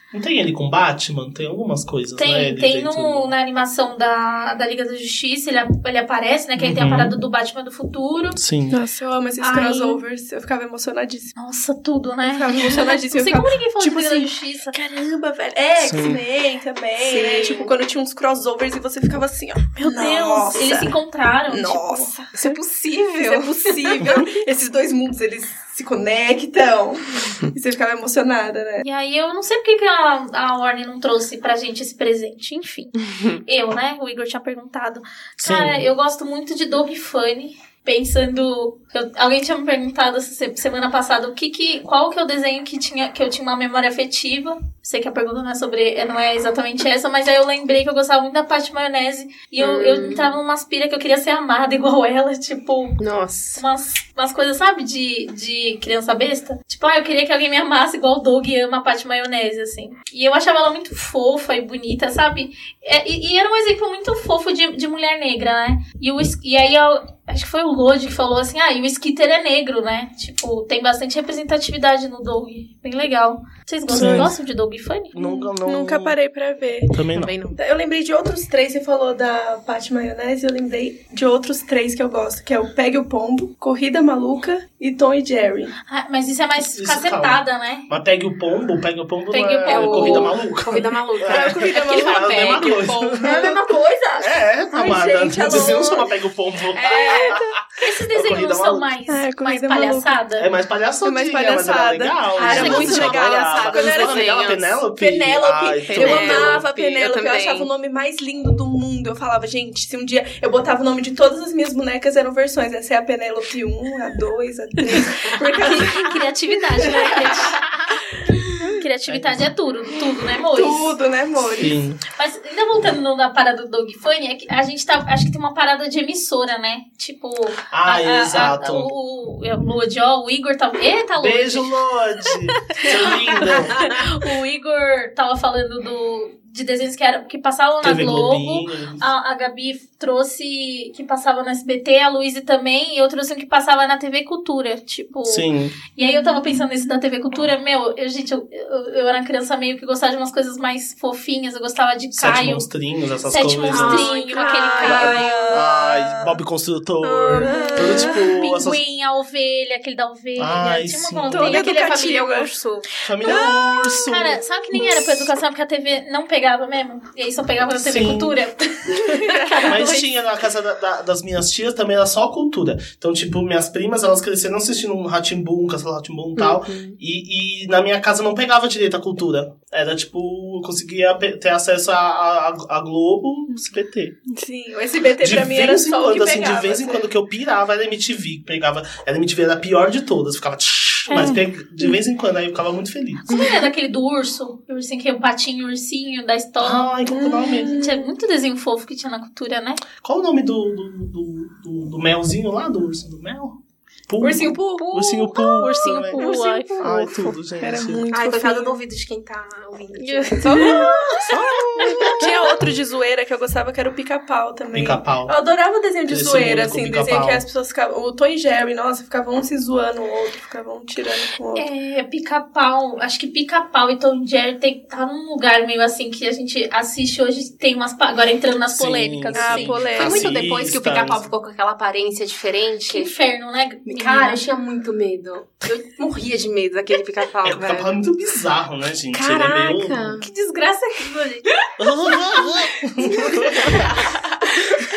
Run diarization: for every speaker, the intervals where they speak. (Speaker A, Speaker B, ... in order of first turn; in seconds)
Speaker A: 0.1-3.3, 6.6-7.2, 8.3-8.8, 15.8-16.2, 35.4-35.8, 73.9-74.3, 75.1-76.2, 76.9-77.3, 86.7-93.6, 94.2-98.9, 100.4-106.7, 119.1-119.5, 121.4-122.0, 127.7-128.9, 131.2-134.0, 137.8-139.1, 145.2-145.8, 152.2-154.1, 154.8-158.8, 160.4-161.6, 163.0-164.9, 167.7-168.4, 169.6-184.2, 185.2-193.3, 196.6-197.8, 200.0-208.1, 211.3-212.3, 214.7-215.3, 216.1-217.4, 228.7-231.3, 237.4-240.2, 241.8-244.1
Speaker B: 2.2-8.4, 9.4-10.0, 11.3-14.8, 19.8-22.1, 28.8-53.0, 53.5-75.2, 85.9-87.9, 89.3-90.3, 97.8-100.5, 102.4-103.1, 115.5-118.0, 118.6-120.9, 122.1-131.7, 132.8-152.7, 153.2-155.7, 157.5-162.2, 163.2-170.1, 191.1-191.4, 193.3-199.8, 204.8-206.9, 210.0-211.2, 211.8-212.1, 221.6-229.9, 232.9-234.4, 240.2-241.5
Speaker C: 8.7-11.3, 12.2-21.0, 21.5-22.6, 23.2-28.8, 73.9-74.3, 75.2-77.0, 77.5-85.7, 91.2-93.5, 94.7-96.1, 96.7-97.5, 99.1-100.2, 101.0-104.3, 104.9-117.6, 118.5-118.8, 120.4-121.8, 146.0-146.6, 153.9-156.3, 157.0-158.3, 161.3-162.5, 163.2-164.2, 169.0-169.9, 184.3-187.0, 197.1-198.1, 204.2-208.8, 210.4-221.7, 229.3-230.3, 242.4-243.8
Speaker D: 17.0-17.8, 22.3-24.3, 49.6-50.3, 53.0-53.6, 77.1-77.6, 89.7-94.4, 96.8-97.3, 102.4-104.8, 105.9-107.7, 153.7-155.1, 161.5-162.9, 176.3-177.0, 193.3-193.6, 208.1-211.3, 229.9-233.1, 233.8-237.9, 239.1-240.3